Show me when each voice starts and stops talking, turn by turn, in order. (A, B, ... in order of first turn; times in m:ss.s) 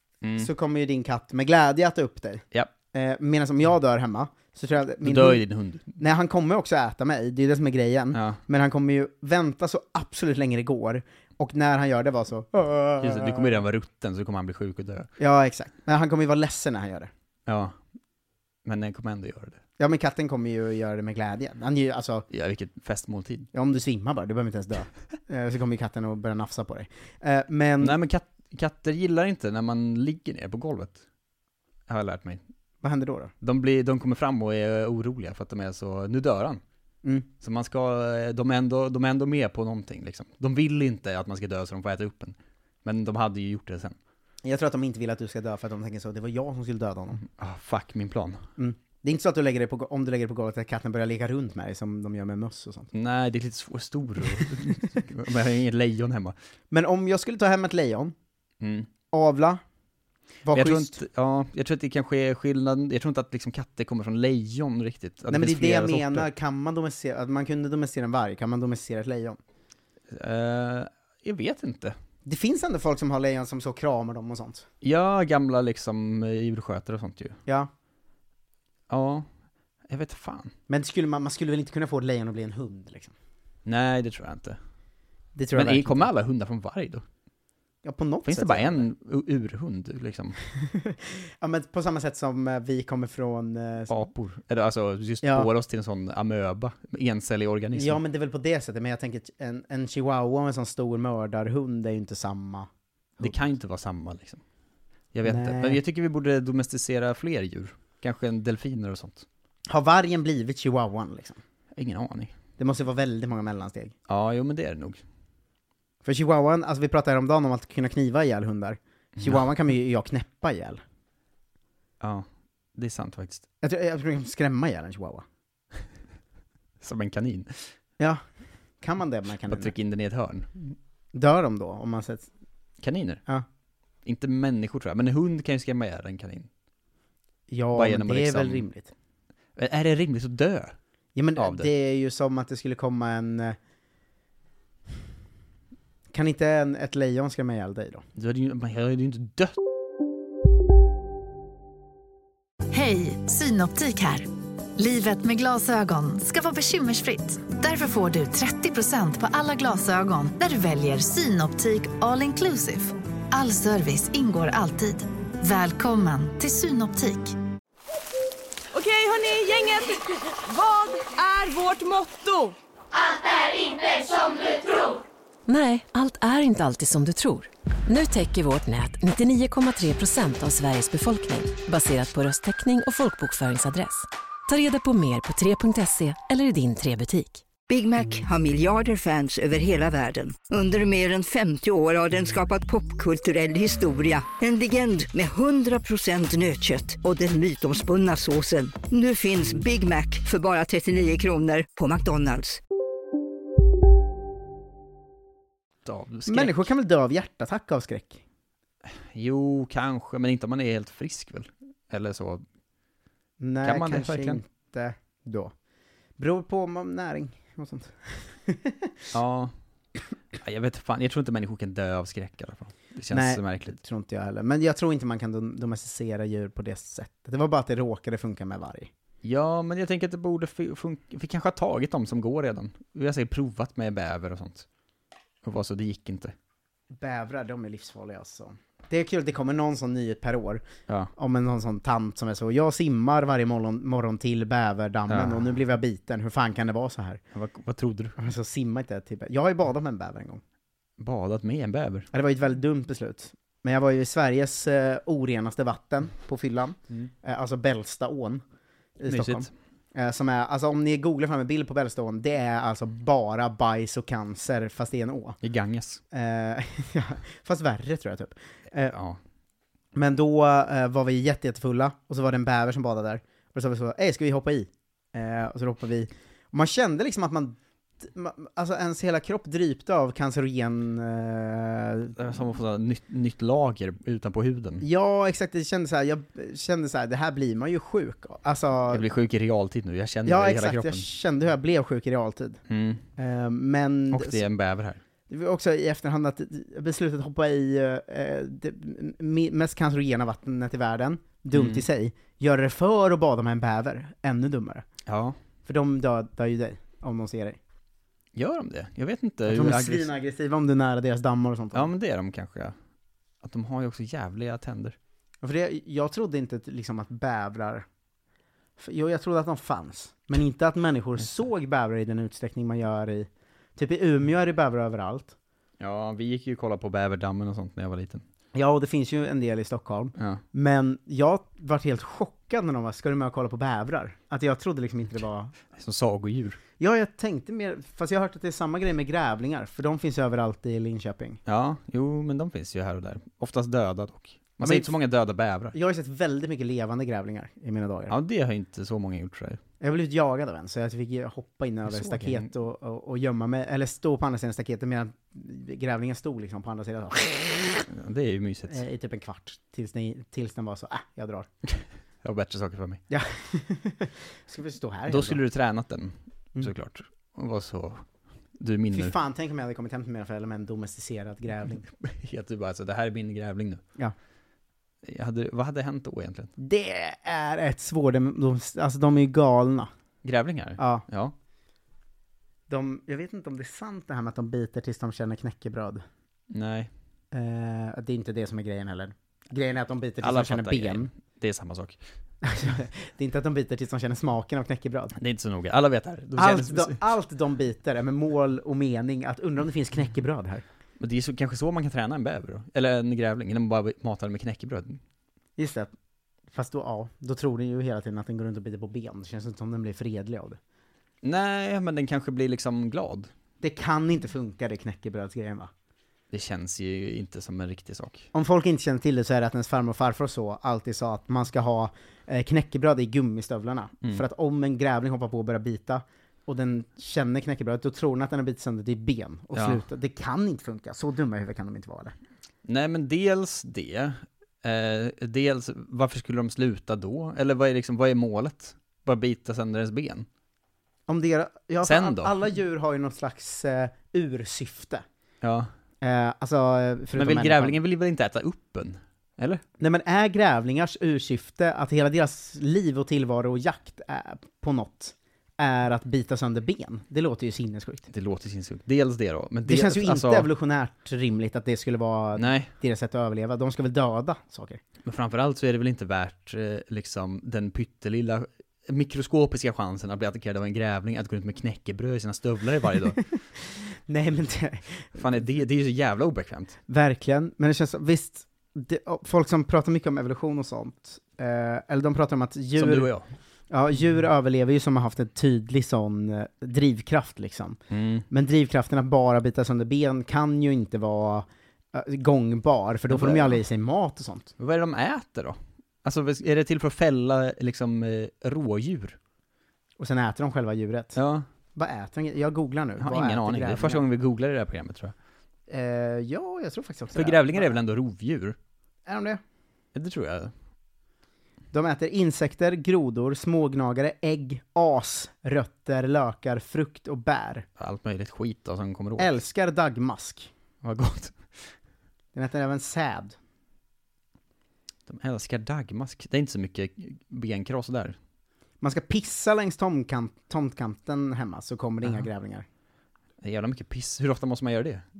0:00.4-0:05.4 A
0:05.0-0:05.9 B
0:06.0-0:13.6 A
0:08.1-0:08.4 B
0:13.0-0:15.1 B
0:15.2-0:17.1 A
0:17.4-0:17.7 B
0:18.6-0:19.6 B
0:19.8-0:22.2 A
0:22.3-0:23.5 B
0:23.5-0:28.0 A
0:27.8-0:31.0 B
0:31.9-0:32.4 B
0:32.8-0:33.3 A
0:33.4-0:36.6 B
0:37.4-0:43.9 B
0:44.4-0:47.2 A
0:47.4-0:48.4 B
0:48.6-0:52.9 A
0:52.9-0:56.3 B
0:56.7-0:58.1 A
0:58.6-0:58.9 B
0:59.1-0:59.6 A
1:00.4-1:01.0 A
1:00.5-1:06.3 B
1:05.3-1:09.4 A
1:10.1-1:12.0 B
1:12.2-1:14.6 A
1:14.8-1:17.4 B
1:18.9-1:19.2 B
1:19.9-1:20.5 B
1:20.7-1:23.1 A
1:23.6-1:24.6 B
1:25.4-1:26.1 A
1:25.5-1:27.0 B
1:27.8-1:28.9 A
1:28.2-1:30.4 B
1:30.6-1:34.1 A
1:33.9-1:38.0 B
1:35.2-1:35.5 A
1:37.7-1:43.5 A
1:43.2-1:44.4 B
1:45.1-1:49.2 B
1:45.2-1:45.8 A
1:49.7-1:51.4 A
1:51.7-1:52.3 B
1:52.6-1:53.9 A
1:54.1-1:55.0 B
1:56.0-2:00.8 A
2:02.0-2:02.2 B
2:02.8-2:03.4 B
2:03.6-2:05.2 A
2:06.8-2:07.6 B
2:08.8-2:09.7 A
2:09.5-2:10.7 B
2:11.1-2:12.3 A
2:12.8-2:13.2 B
2:14.0-2:16.5 B
2:17.5-2:18.9 A
2:17.7-2:18.6 B
2:19.6-2:20.7 B
2:21.2-2:23.6 A
2:21.4-2:21.7 B
2:26.1-2:28.0 A
2:28.2-2:29.5 B
2:32.7-2:34.3 C
2:34.8-2:47.4 C
2:48.7-2:52.6 D
2:55.5-3:07.4 E
3:07.7-3:22.6 F
3:25.8-3:26.7 B
3:26.3-3:28.2 A
3:29.1-3:32.4 B
3:33.4-3:35.5 A
3:33.6-3:34.4 B
3:36.2-3:39.2 A
3:39.1-3:39.5 B
3:40.4-3:43.8 B
3:43.1-3:48.9 A
3:49.2-3:54.6 B
3:55.4-3:56.3 B
3:56.9-4:00.6 A
4:01.2-4:07.2 A
4:05.1-4:05.6 B
4:07.3-4:08.2 B
4:08.2-4:10.4 A
4:11.0-4:12.1 B
4:12.1-4:18.4 A
4:19.0-4:25.4 A
4:19.1-4:19.5 B
4:25.4-4:26.0 B
4:26.1-4:29.0 A
4:28.9-4:29.2 B
4:29.9-4:42.1 A
4:42.2-4:44.8 B
4:44.8-4:49.0 A
4:48.9-4:51.0 B
4:50.2-4:52.6 A
4:52.7-4:53.0 B
4:53.2-4:54.4 A
4:54.1-4:55.0 B
4:55.3-5:04.8 A
5:01.5-5:01.8 B
5:05.0-5:05.4 B
5:05.6-5:07.6 A
5:08.3-5:10.1 B
5:09.5-5:11.9 A
5:11.7-5:12.7 B
5:13.4-5:15.0 B
5:15.4-5:17.8 A
5:18.8-5:25.3 A
5:25.8-5:28.2 B
5:28.5-5:35.6 A
5:35.7-5:36.6 B
5:36.8-5:41.4 A
5:41.4-5:45.7 B
5:44.6-5:44.9 A
5:45.7-5:48.1 A
5:48.1-5:49.6 B
5:49.8-5:57.8 A
5:52.0-5:52.4 B
5:57.9-5:58.8 B
5:58.7-6:01.5 A
6:02.2-6:03.0 B
6:03.1-6:05.4 A
6:05.1-6:08.0 B
6:08.6-6:09.1 B
6:08.9-6:11.8 A
6:12.0-6:13.8 B
6:15.1-6:16.5 B
6:16.6-6:19.9 A
6:20.2-6:21.3 B
6:20.8-6:21.0 A
6:22.7-6:26.0 A
6:26.5-6:26.9 B
6:27.3-6:31.1 A
6:30.2-6:32.0 B
6:32.4-6:35.2 A
6:35.2-6:37.0 B
6:36.4-6:40.6 A
6:41.0-6:45.0 B
6:45.6-6:45.9 A
6:46.5-6:50.6 A
6:51.2-6:53.3 B
6:53.6-6:55.7 A
6:56.3-6:58.3 B
6:58.3-7:12.1 A
7:09.5-7:09.8 B
7:12.6-7:20.2 B
7:21.1-7:25.0 A
7:21.8-7:22.3 B
7:25.4-7:25.7 B
7:26.0-7:27.8 A
7:27.1-7:29.6 B
7:29.8-7:38.1 A
7:38.1-7:40.5 B
7:39.6-7:44.8 A
7:42.4-7:42.7 B
7:45.0-7:53.2 B
7:54.1-7:55.5 A
7:55.2-7:56.7 B
7:56.9-8:03.1 A
8:02.8-8:03.3 B
8:03.7-8:07.8 A
8:07.9-8:08.3 B
8:08.3-8:14.5 A
8:13.1-8:13.6 B
8:14.6-8:19.2 B
8:20.0-8:21.2 A
8:21.2-8:21.4 B
8:21.7-8:24.0 A
8:23.0-8:25.1 B
8:25.7-8:27.8 A
8:27.1-8:28.6 B
8:29.0-8:29.4 A
8:29.9-8:30.5 B
8:31.7-8:37.6 A
8:37.8-8:39.3 B
8:39.2-8:40.5 A
8:40.8-8:41.4 B
8:42.3-8:43.3 A
8:45.1-8:48.2 B
8:48.8-8:52.6 A
8:53.4-8:55.0 B